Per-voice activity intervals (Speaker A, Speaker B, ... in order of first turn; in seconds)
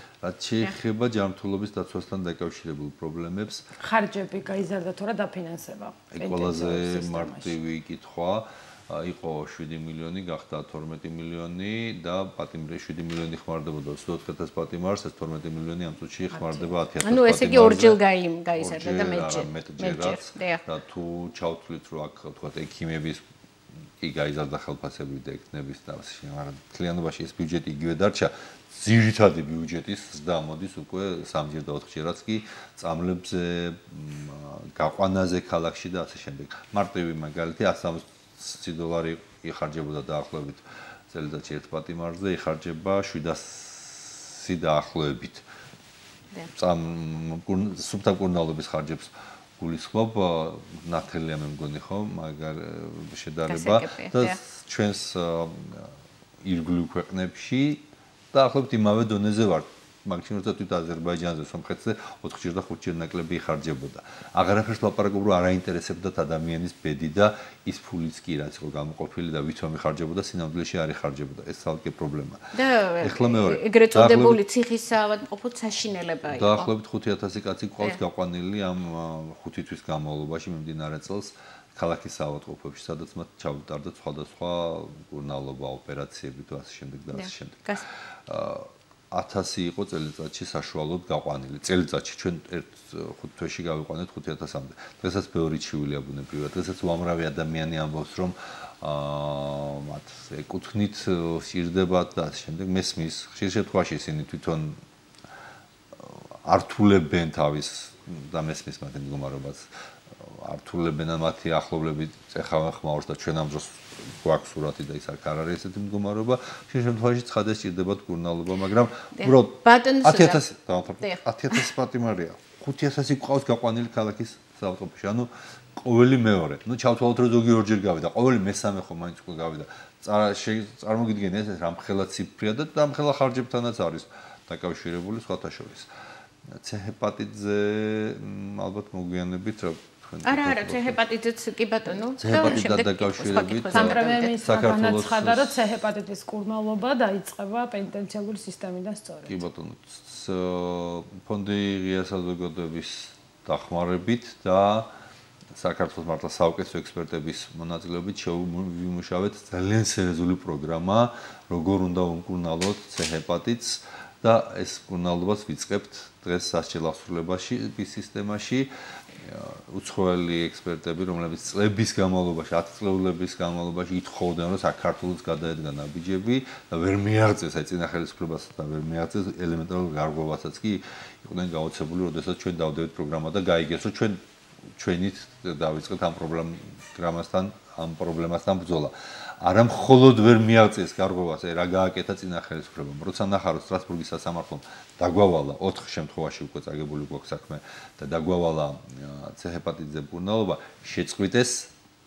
Speaker A: 0.2-3.7, 6.1-18.0, 18.5-23.2, 24.0-45.4, 46.5-72.5, 73.0-74.4, 76.3-87.7, 88.2-104.8, 106.0-135.9, 136.5-141.0, 142.2-145.6, 149.2-154.9, 155.5-184.2, 184.8-201.7
Speaker B: 3.8-7.5, 143.7-149.4
Speaker C: 17.0-20.6, 53.5-54.4, 72.5-76.7, 87.1-87.8, 119.2-120.4, 140.2-144.4